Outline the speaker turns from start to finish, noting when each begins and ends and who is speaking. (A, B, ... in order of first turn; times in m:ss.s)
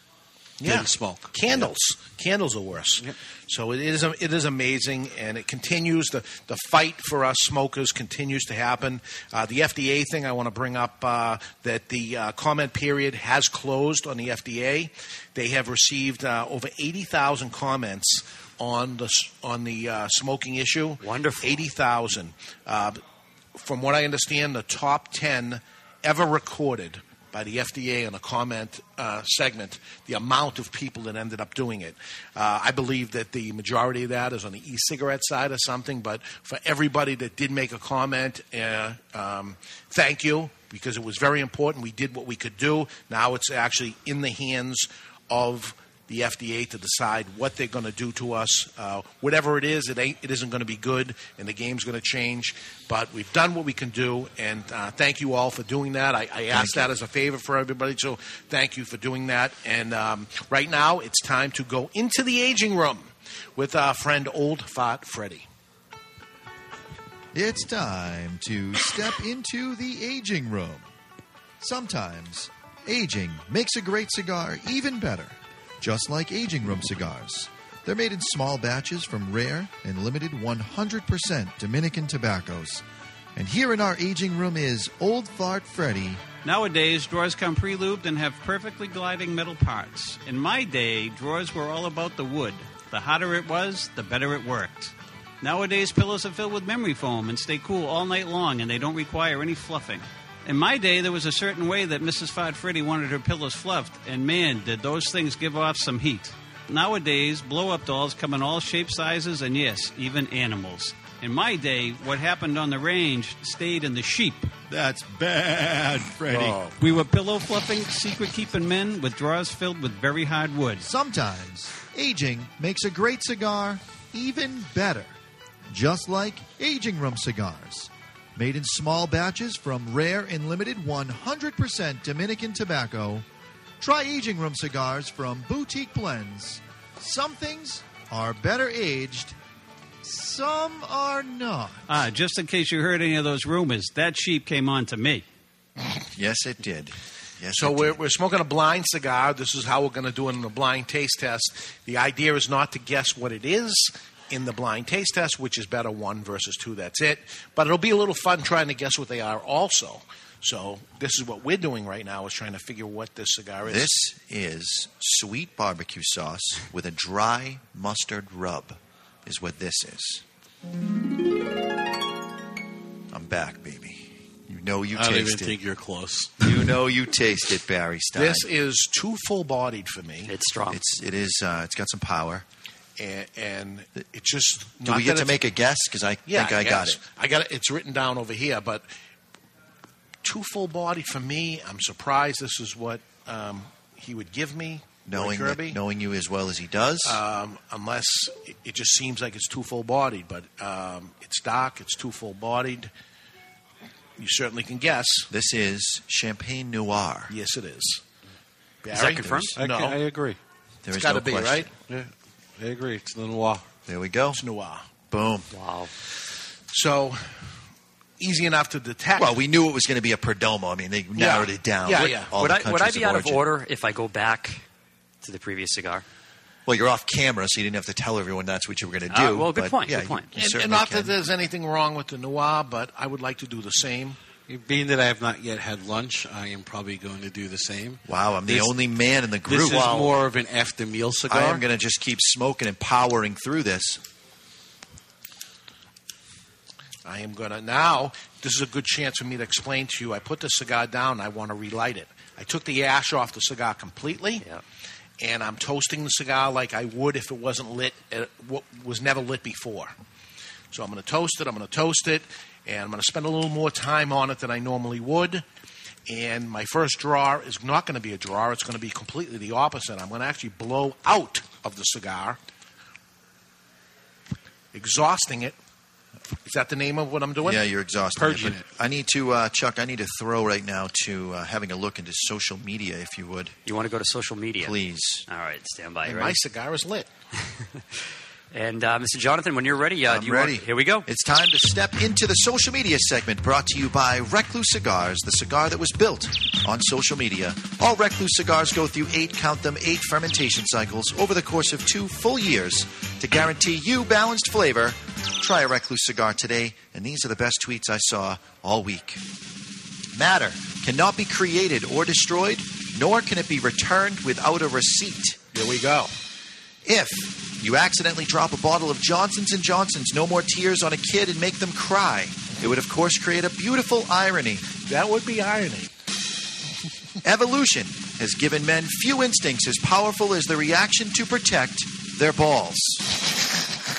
0:00.6-0:23.0 A
0:00.6-0:01.7 B
0:21.0-0:21.6 C
0:23.6-1:05.5 A
0:56.5-0:56.9 D
1:07.3-1:10.9 D
1:11.6-1:22.8 D
1:23.4-1:26.2 D
1:26.4-1:54.5 E
1:54.7-1:56.6 D
1:56.3-1:56.6 A
1:56.8-2:00.9 E
2:00.8-2:05.1 D
2:05.7-2:13.2 D
2:13.8-2:19.4 D
2:20.0-2:21.9 D
2:21.9-2:25.2 E
2:26.2-2:28.0 D
2:27.6-2:43.9 A
2:43.6-2:50.2 D
2:53.1-2:55.6 D
2:54.9-2:56.4 B
2:56.4-2:58.5 D
2:58.2-3:00.3 A
3:00.3-3:00.8 C
3:00.7-3:02.5 D
3:03.0-3:05.4 A
3:04.8-3:07.0 D
3:06.3-3:08.9 A
3:10.2-3:15.8 A
3:15.1-3:17.2 D
3:17.0-3:22.9 A
3:24.2-3:25.3 A
3:25.3-3:27.3 D
3:27.3-3:28.0 A
3:28.8-3:30.0 A
3:28.9-3:29.5 C
3:29.6-3:30.4 B
3:30.8-3:31.7 D
3:30.9-3:31.7 A
3:31.9-3:33.6 B
3:33.9-3:34.4 D
3:34.3-3:34.8 A
3:35.1-3:35.5 D
3:35.5-3:35.9 C
3:36.7-3:37.3 A
3:38.2-3:39.4 A
3:39.2-3:43.5 D
3:41.2-3:42.3 A
3:42.4-3:44.6 C
3:45.2-3:46.0 C
3:46.7-3:51.2 D
3:49.1-3:50.3 C
3:50.4-3:54.2 A
3:54.5-3:58.7 B
3:58.1-4:00.2 D
3:59.5-4:01.6 B
4:01.3-4:04.0 D
4:07.0-4:14.4 A
4:15.2-4:19.9 A
4:20.7-4:25.4 A
4:26.1-4:32.4 A
4:34.7-4:35.6 A
4:36.4-4:37.6 A
4:37.4-4:43.6 D
4:38.2-4:38.7 B
4:43.7-4:44.8 C
4:44.6-4:45.2 D
4:45.3-4:46.4 C
4:46.0-4:47.1 A
4:48.5-4:51.1 C
4:50.1-5:09.2 D
5:10.1-5:15.4 D
5:15.5-5:16.1 A
5:16.8-5:24.7 D
5:24.9-5:25.9 A
5:27.2-5:33.0 D